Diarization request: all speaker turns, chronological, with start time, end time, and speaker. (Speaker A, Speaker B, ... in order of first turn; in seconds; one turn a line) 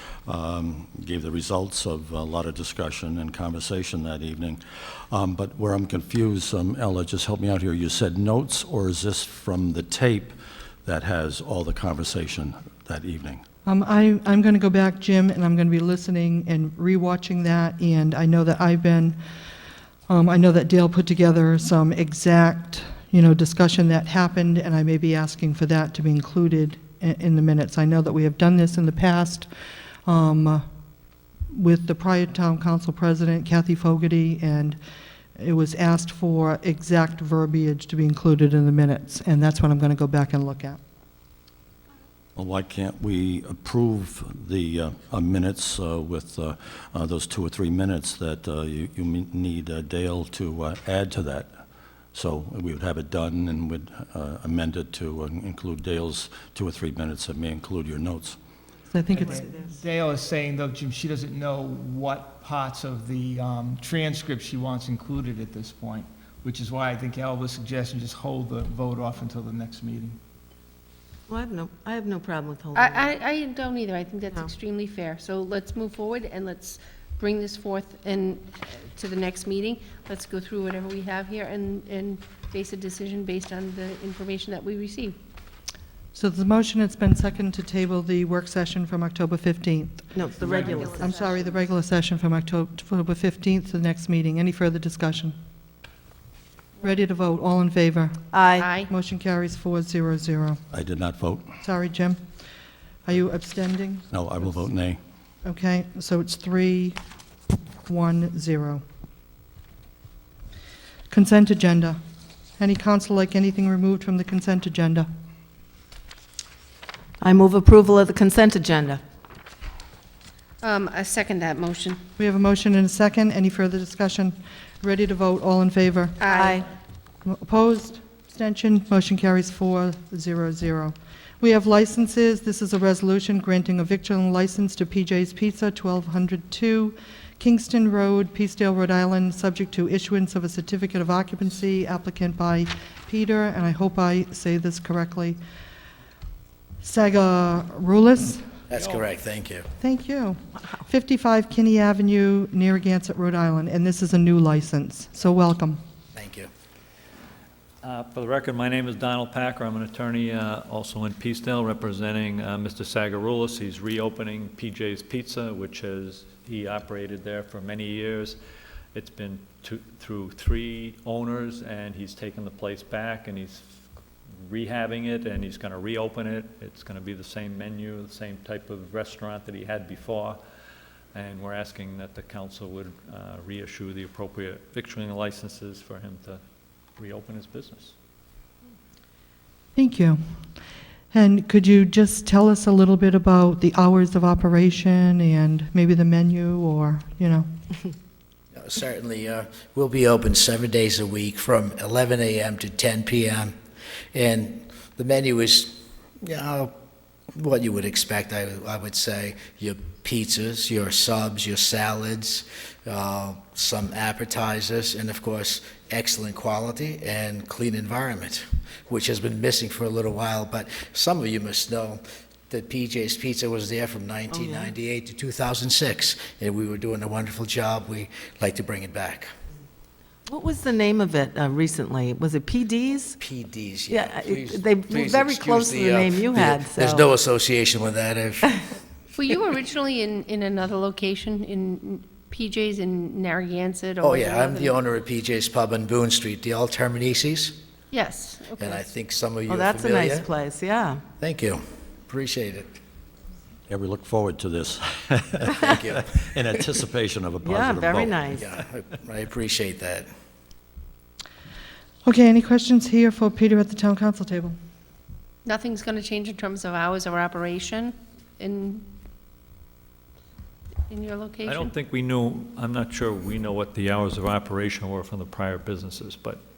Speaker A: 0.2-13.4
Speaker B: 13.6-19.2
Speaker B: 20.1-29.5
Speaker B: 30.0-30.6
Speaker B: 31.5-34.8
Speaker B: 35.4-40.8
Speaker A: 42.4-51.6
Speaker A: 52.1-58.4
Speaker B: 58.9-59.5
Speaker C: 59.3-70.1
Speaker D: 71.3-73.2
Speaker E: 72.7-85.2
Speaker B: 86.1-90.2
Speaker D: 90.1-91.0
Speaker E: 90.8-91.5
Speaker B: 90.9-95.3
Speaker B: 96.8-98.2
Speaker D: 98.3-98.7
Speaker E: 98.5-98.9
Speaker B: 98.8-100.6
Speaker A: 100.7-101.5
Speaker B: 101.6-102.2
Speaker B: 103.0-104.0
Speaker A: 104.1-105.0
Speaker B: 105.4-107.0
Speaker B: 107.8-108.8
Speaker B: 111.1-112.0
Speaker B: 112.6-115.1
Speaker D: 117.2-119.0
Speaker E: 120.6-122.0
Speaker B: 122.2-126.2
Speaker E: 126.2-126.6
Speaker D: 126.3-126.6
Speaker B: 127.2-145.4
Speaker B: 146.8-148.5
Speaker F: 148.7-149.7
Speaker B: 149.8-155.8
Speaker F: 156.1-156.5
Speaker G: 157.8-168.4
Speaker G: 168.9-173.8
Speaker G: 174.4-180.4
Speaker G: 181.1-186.4
Speaker G: 186.9-187.9
Speaker B: 189.8-190.2
Speaker B: 191.1-197.5
Speaker F: 198.5-203.5
Speaker F: 204.1-206.7
Speaker F: 207.3-229.3
Speaker D: 224.3-224.7
Speaker D: 230.3-233.2
Speaker F: 233.2-238.5
Speaker D: 233.9-237.1
Speaker E: 239.2-244.8
Speaker F: 244.0-247.5
Speaker E: 247.9-248.8
Speaker F: 248.6-250.3
Speaker D: 249.5-251.0
Speaker F: 251.2-252.7
Speaker A: 253.7-258.1
Speaker F: 255.5-256.0
Speaker D: 257.4-258.5
Speaker F: 258.3-260.1
Speaker B: 262.0-264.5
Speaker E: 265.4-268.8
Speaker E: 270.9-271.7
Speaker G: 271.4-276.4